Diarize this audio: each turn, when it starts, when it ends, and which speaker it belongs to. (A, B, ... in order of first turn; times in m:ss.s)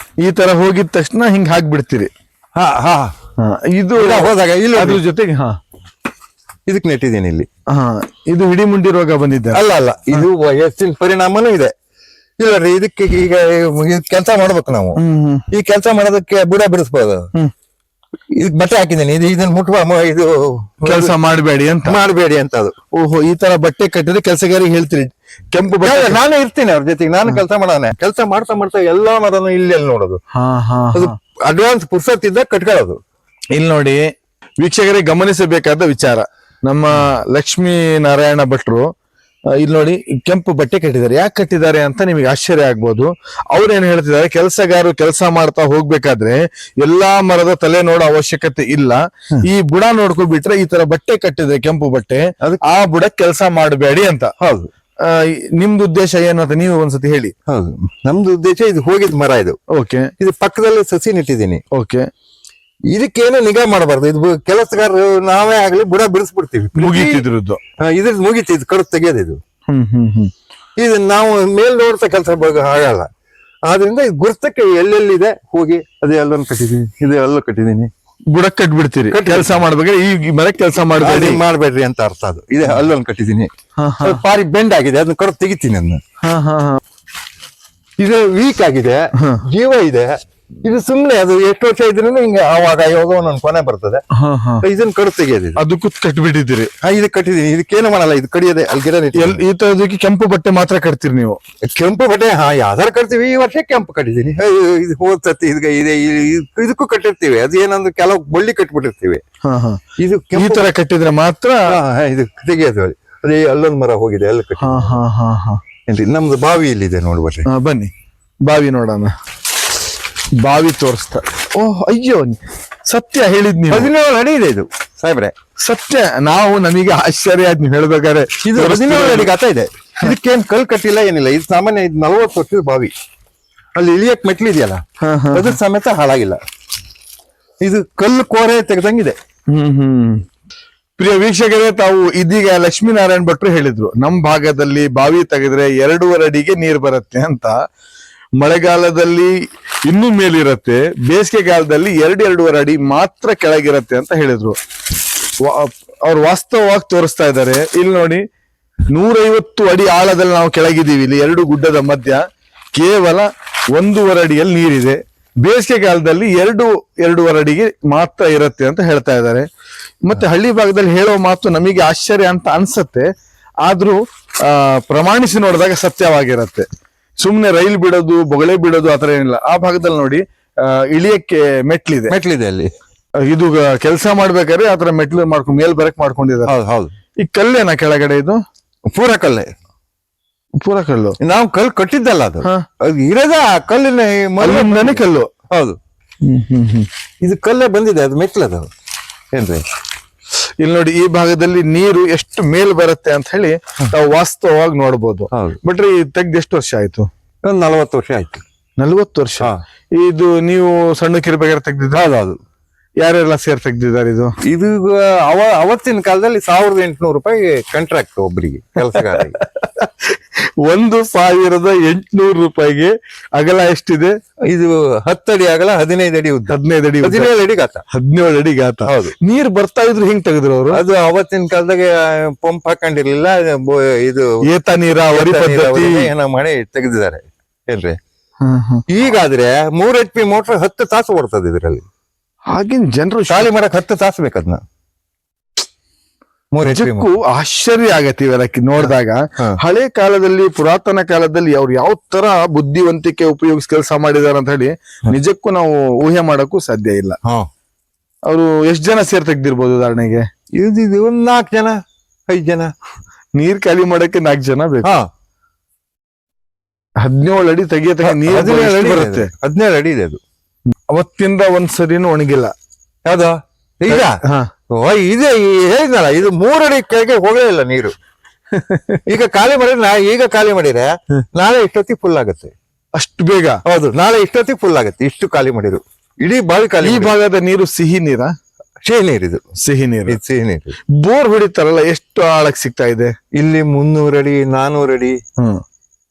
0:00.2-0:02.1 A
0:02.6-0:03.1 B
0:03.4-0:05.6 A
0:04.0-0:05.0 B
0:06.7-0:07.5 B
0:07.7-0:09.6 A
0:09.5-0:11.7 B
0:12.4-0:17.3 B
0:15.0-0:15.5 A
0:18.3-0:21.2 B
0:20.8-0:22.0 A
0:21.8-0:22.7 B
0:23.0-0:26.2 A
0:25.8-0:30.2 B
0:30.3-0:31.1 A
0:30.9-0:33.0 B
0:33.6-0:34.0 A
0:34.6-0:38.8 A
0:39.6-0:54.3 A
0:54.4-0:54.7 B
0:55.0-0:57.3 A
0:57.5-0:59.6 B
0:59.7-1:00.1 A
1:00.2-1:01.6 B
1:01.7-1:02.1 A
1:02.9-1:07.2 B
1:06.8-1:07.6 A
1:07.8-1:09.4 B
1:09.7-1:10.3 A
1:10.8-1:13.1 B
1:13.7-1:17.9 B
1:18.3-1:21.4 A
1:19.1-1:19.6 B
1:21.0-1:23.5 B
1:23.8-1:24.2 A
1:24.0-1:26.0 B
1:26.2-1:26.8 A
1:28.0-1:34.0 B
1:29.2-1:29.4 A
1:34.2-1:34.6 A
1:34.6-1:35.6 B
1:35.6-1:36.7 A
1:36.8-1:39.4 B
1:39.2-1:41.4 A
1:41.7-1:49.2 B
1:49.4-1:49.8 A
1:50.0-1:50.7 B
1:50.4-1:51.8 A
1:51.7-1:55.0 B
1:54.6-1:55.6 A
1:55.9-1:57.5 B
1:57.5-1:57.9 A
1:58.5-1:59.1 A
2:00.4-2:03.9 A
2:03.7-2:05.3 B
2:05.6-2:09.3 A
2:08.4-2:12.9 B
2:13.8-2:16.4 B
2:15.0-2:15.6 A
2:17.6-2:19.2 B
2:19.5-2:20.2 A
2:21.0-2:27.5 A
2:28.4-2:29.3 A
2:29.8-2:34.6 A
2:35.4-2:38.2 A
2:38.9-2:42.2 A
2:42.8-2:49.5 A
2:50.0-2:53.1 A
2:53.6-2:56.7 A
2:57.2-3:02.2 A
3:02.1-3:02.7 B
3:03.2-3:06.5 A
3:06.5-3:06.9 B
3:07.2-3:08.4 A
3:08.9-3:09.5 B
3:10.6-3:11.2 A
3:11.2-3:15.8 B
3:14.4-3:15.3 A
3:16.2-3:16.9 A
3:17.2-3:18.7 B
3:19.3-3:19.6 B
3:20.6-3:27.1 A
3:25.3-3:25.6 B
3:27.4-3:28.4 B
3:28.8-3:32.0 A
3:31.9-3:32.4 B
3:33.0-3:34.4 A
3:34.5-3:39.4 B
3:39.0-3:44.1 A
3:44.5-3:47.8 B
3:46.5-3:47.3 A
3:47.9-3:50.8 A
3:48.9-3:49.1 B
3:50.7-3:54.3 B
3:54.5-3:56.1 A
3:55.1-3:58.0 B
3:58.4-3:58.8 A
3:58.9-4:01.8 B
4:02.5-4:03.5 A
4:03.3-4:04.6 B
4:06.5-4:07.1 B
4:06.6-4:17.2 A
4:08.8-4:09.6 B
4:18.3-4:20.3 A
4:20.6-4:21.8 B
4:22.3-4:22.7 B
4:23.4-4:24.9 A
4:27.0-4:29.3 A
4:28.0-4:30.2 B
4:30.7-4:32.5 A
4:33.0-4:34.2 B
4:33.9-4:34.5 A
4:34.7-4:37.9 B
4:38.6-4:39.0 A
4:39.1-4:42.5 B
4:43.0-4:43.6 A
4:43.7-4:47.1 B
4:46.8-4:48.3 A
4:48.8-4:49.4 B
4:49.6-4:50.2 A
4:50.1-4:50.8 B
4:51.0-4:53.1 A
4:53.3-4:55.2 B